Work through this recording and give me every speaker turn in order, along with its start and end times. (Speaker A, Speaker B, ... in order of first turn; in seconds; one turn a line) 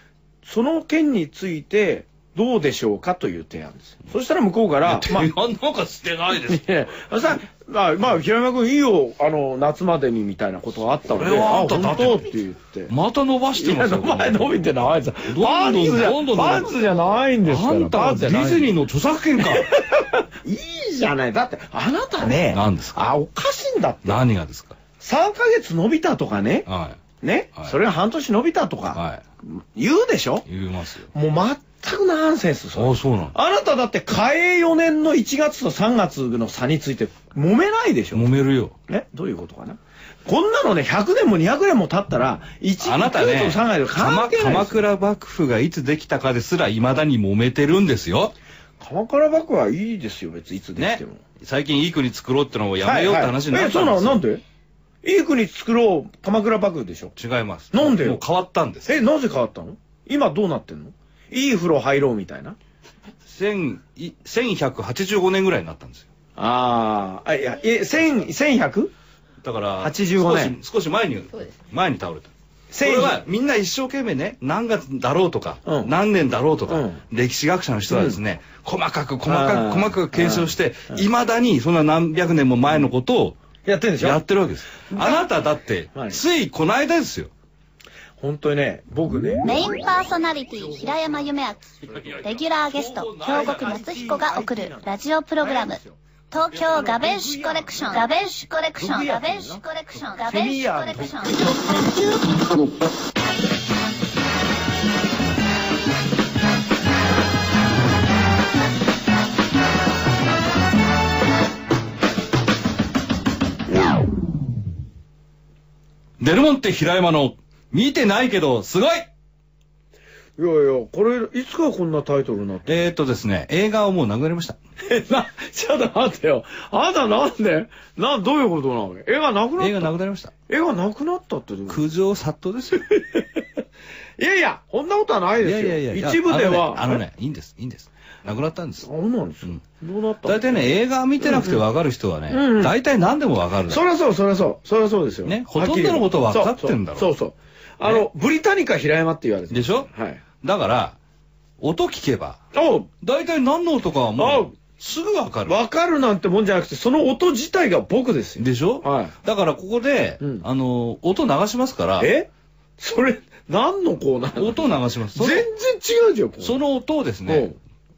Speaker A: 0.4-5.3
Speaker B: 4.8-7.0
Speaker A: 6.5-12.9
Speaker B: 11.1-12.3
Speaker B: 12.9-19.7
Speaker A: 13.6-18.7
Speaker A: 19.4-24.2
Speaker B: 22.5-23.0
Speaker B: 24.0-24.8
Speaker A: 25.0-26.7
Speaker B: 26.6-27.0
Speaker A: 27.2-30.4
Speaker B: 28.9-29.2
Speaker B: 30.4-31.1
Speaker A: 31.1-38.3
Speaker B: 32.7-33.4
Speaker B: 38.1-38.7
Speaker A: 38.9-44.9
Speaker B: 42.8-48.3
Speaker A: 48.8-51.2
Speaker B: 50.8-54.2
Speaker A: 52.8-54.4
Speaker A: 55.0-57.1
Speaker B: 57.1-59.0
Speaker A: 57.7-58.2
Speaker A: 58.8-62.6
Speaker B: 63.2-66.1
Speaker A: 66.4-68.9
Speaker B: 69.4-83.4
Speaker A: 69.8-70.6
Speaker A: 72.7-73.2
Speaker A: 75.7-75.9
Speaker A: 76.7-77.0
Speaker A: 77.9-78.2
Speaker A: 79.2-81.0
Speaker A: 83.6-84.2
Speaker B: 84.0-87.3
Speaker A: 84.9-85.2
Speaker A: 85.9-86.2
Speaker A: 88.2-89.7
Speaker C: 89.4-95.8
Speaker A: 90.6-91.2
Speaker B: 91.8-93.8
Speaker A: 93.2-98.1
Speaker C: 96.3-101.8
Speaker A: 98.8-99.6
Speaker A: 100.2-101.8
Speaker B: 116.2-119.1
Speaker A: 120.4-122.9
Speaker B: 122.7-124.6
Speaker A: 124.8-129.9
Speaker B: 129.6-130.3
Speaker A: 130.5-131.8
Speaker B: 131.7-132.9
Speaker A: 132.8-133.2
Speaker A: 134.2-137.0
Speaker B: 135.4-138.9
Speaker A: 138.8-141.6
Speaker B: 140.2-143.8
Speaker A: 142.3-142.7
Speaker A: 143.7-150.2
Speaker B: 145.2-147.1
Speaker B: 149.5-149.9
Speaker B: 150.4-151.0
Speaker B: 151.6-152.4
Speaker A: 152.5-152.9
Speaker B: 153.0-155.6
Speaker A: 154.2-154.5
Speaker A: 155.4-159.1
Speaker B: 158.4-162.1
Speaker A: 160.2-160.4
Speaker A: 162.0-166.6
Speaker B: 164.4-165.5
Speaker B: 166.4-167.5
Speaker A: 167.2-167.6